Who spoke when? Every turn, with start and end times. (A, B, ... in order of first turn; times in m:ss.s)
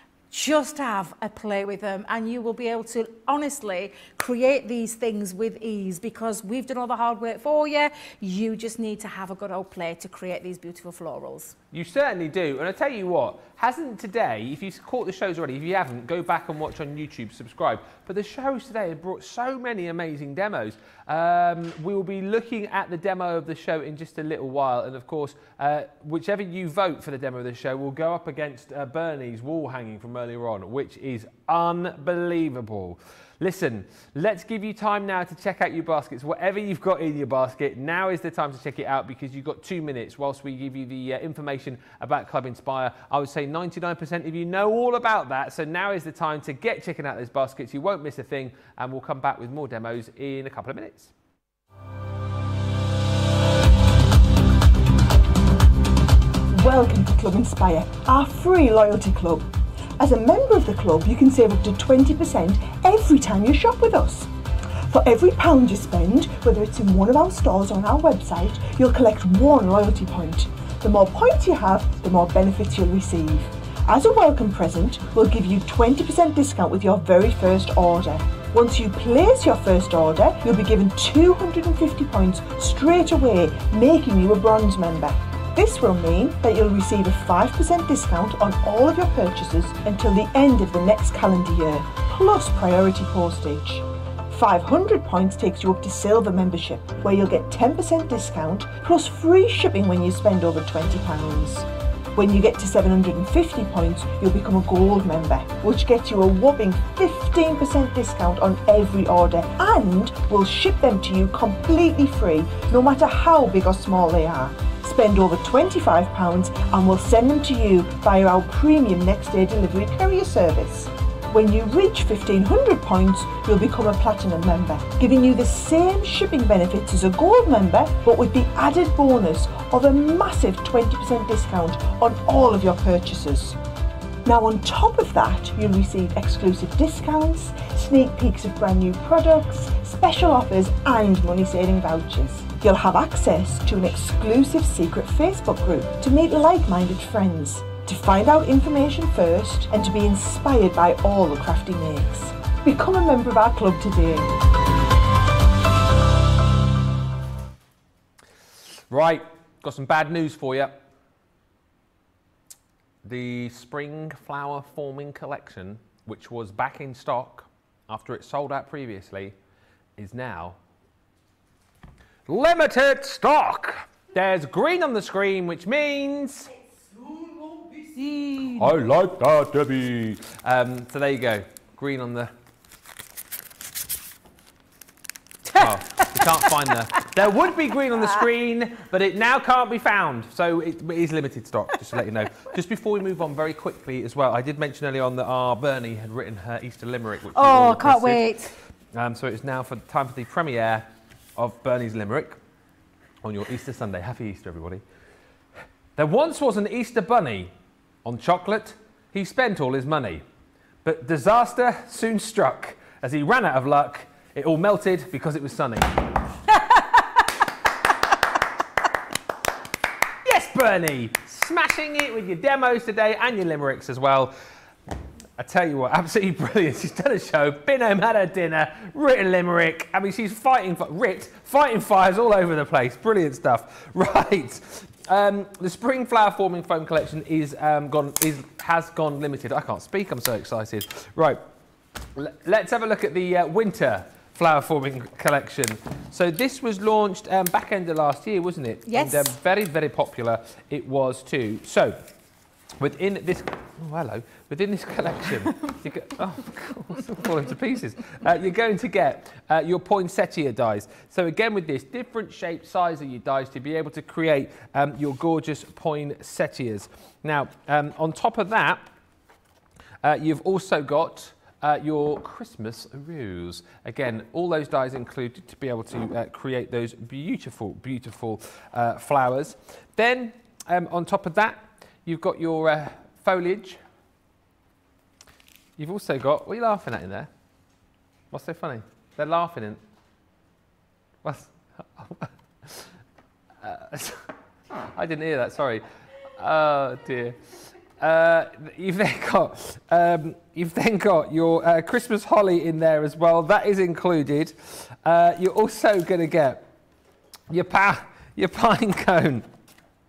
0:00.3-0:11.6 A
0:11.7-0:51.1 B
0:56.5-0:59.5 C
1:00.0-1:04.3 C
1:04.8-2:13.6 C
2:14.2-2:34.4 C
2:38.9-2:40.8 B
2:43.0-2:49.3 B
2:50.0-2:50.6 B
2:52.3-2:56.5 B
2:57.9-2:58.7 A
2:58.6-3:02.3 B
3:05.5-3:06.6 A
3:05.5-3:18.3 B
3:17.3-3:18.5 A
3:18.9-3:22.4 B
3:23.2-3:24.8 B
3:26.0-3:27.5 B
3:28.0-3:30.2 B
3:30.8-3:36.2 B
3:40.2-3:44.3 B
3:45.4-4:01.4 B
4:02.1-4:12.0 B
4:08.9-4:09.3 A
4:12.8-4:28.8 B
4:30.0-4:43.8 B
4:45.8-4:47.3 B
4:48.3-4:49.8 B
4:51.2-4:52.9 B
4:53.6-4:54.3 B
4:54.9-4:55.8 B
4:56.4-4:57.4 B
4:58.0-5:06.6 B
5:07.5-5:09.5 B